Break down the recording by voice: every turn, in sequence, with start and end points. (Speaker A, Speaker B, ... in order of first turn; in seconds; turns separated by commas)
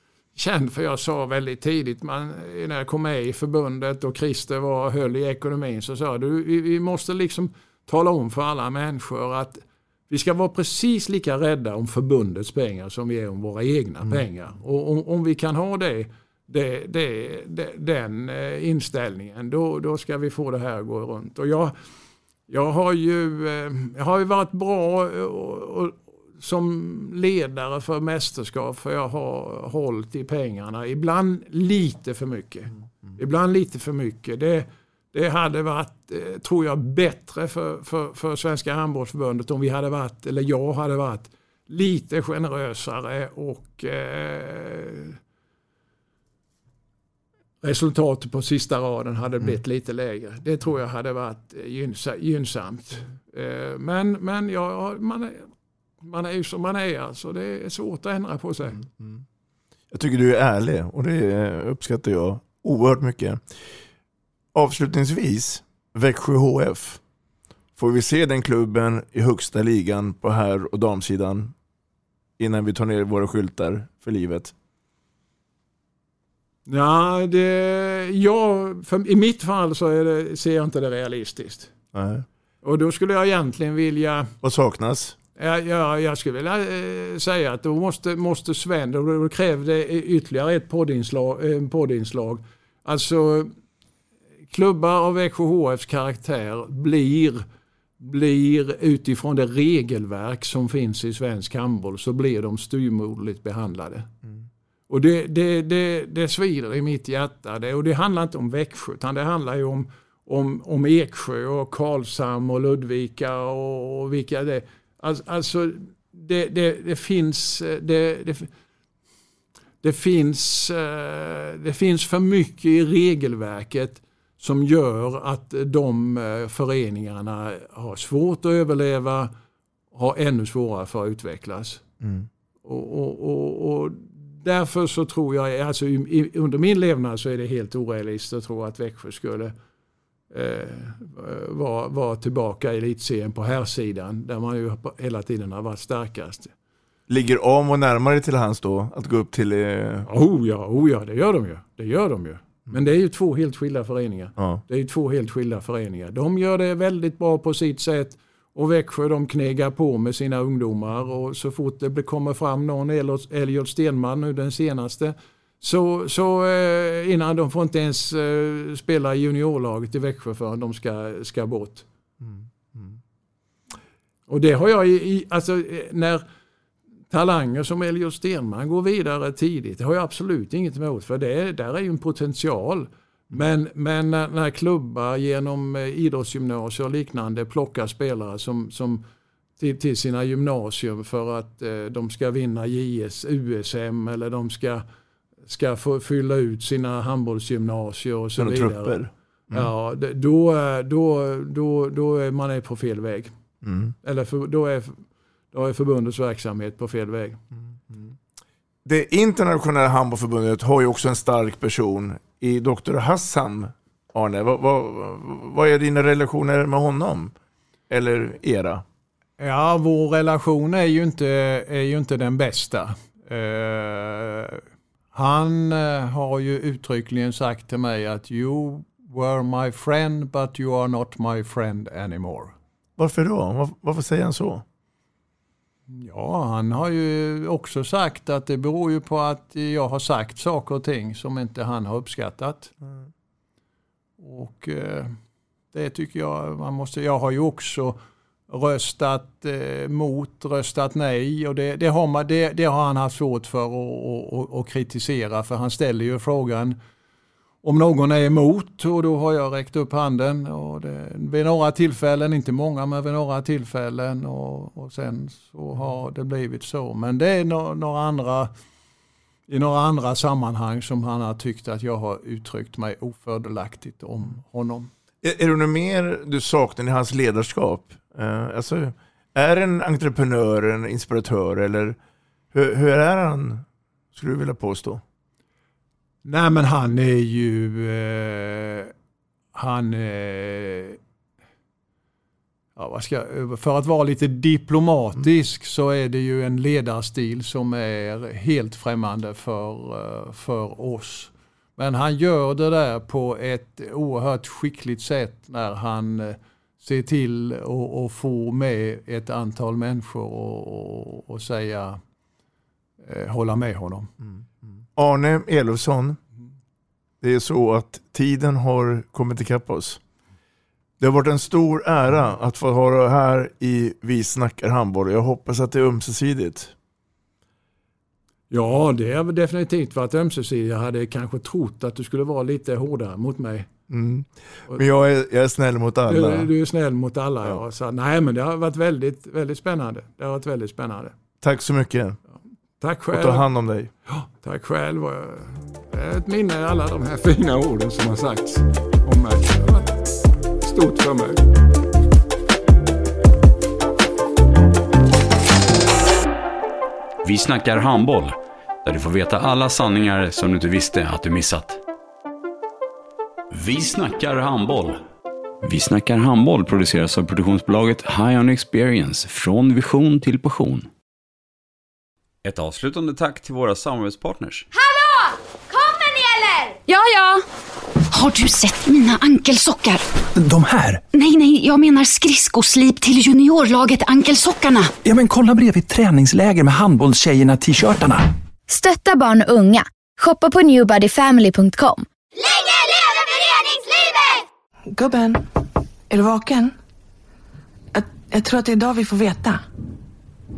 Speaker A: 0.3-21.8, Speaker A: 22.5-45.2, Speaker A: 47.6-55.5, Speaker A: 56.0-58.8, Speaker B: 58.8-59.2, Speaker B: 59.9-63.7, Speaker B: 64.5-67.0, Speaker B: 67.8-71.5, Speaker B: 72.4-74.5, Speaker A: 76.7-81.7, Speaker B: 81.9-82.2, Speaker A: 82.6-84.3, Speaker B: 84.4-85.2, Speaker A: 85.3-93.5, Speaker A: 94.5-97.4, Speaker A: 98.0-104.1, Speaker A: 104.9-118.5, Speaker A: 119.8-129.3, Speaker A: 129.9-131.8, Speaker B: 132.0-132.3, Speaker A: 132.6-139.5, Speaker A: 140.3-146.5, Speaker B: 147.1-150.1, Speaker A: 150.1-171.8, Speaker B: 154.4-154.6, Speaker B: 172.2-173.0, Speaker A: 174.3-176.2, Speaker A: 177.1-189.0, Speaker A: 189.6-194.8, Speaker A: 195.5-203.3, Speaker B: 198.4-199.7, Speaker B: 203.6-203.9, Speaker A: 204.0-207.4, Speaker B: 207.9-208.1, Speaker B: 208.8-217.3, Speaker B: 217.9-218.8, Speaker A: 219.4-224.6, Speaker A: 225.1-232.5, Speaker B: 233.0-234.6, Speaker A: 235.9-242.7, Speaker A: 244.2-245.2, Speaker A: 245.7-256.8, Speaker A: 257.6-268.5, Speaker A: 269.5-274.9, Speaker B: 275.2-282.0, Speaker B: 282.5-285.0, Speaker A: 286.2-288.9, Speaker A: 289.5-291.0, Speaker A: 292.8-312.0, Speaker A: 313.0-314.1, Speaker B: 314.6-316.2, Speaker B: 317.2-320.0, Speaker B: 321.0-326.7, Speaker A: 328.5-333.7, Speaker B: 333.9-336.5, Speaker A: 336.1-341.1, Speaker B: 341.4-342.2, Speaker A: 342.8-343.5, Speaker B: 343.1-343.9, Speaker A: 344.1-350.0, Speaker A: 350.6-351.4, Speaker C: 357.2-361.8, Speaker C: 363.5-365.0, Speaker C: 365.6-370.9, Speaker C: 372.4-374.7, Speaker D: 376.6-377.4, Speaker D: 378.1-380.0, Speaker E: 380.3-381.0, Speaker D: 381.1-384.9, Speaker E: 385.0-388.3, Speaker F: 388.7-392.1, Speaker G: 394.9-395.4, Speaker G: 396.1-396.7, Speaker G: 397.9-399.6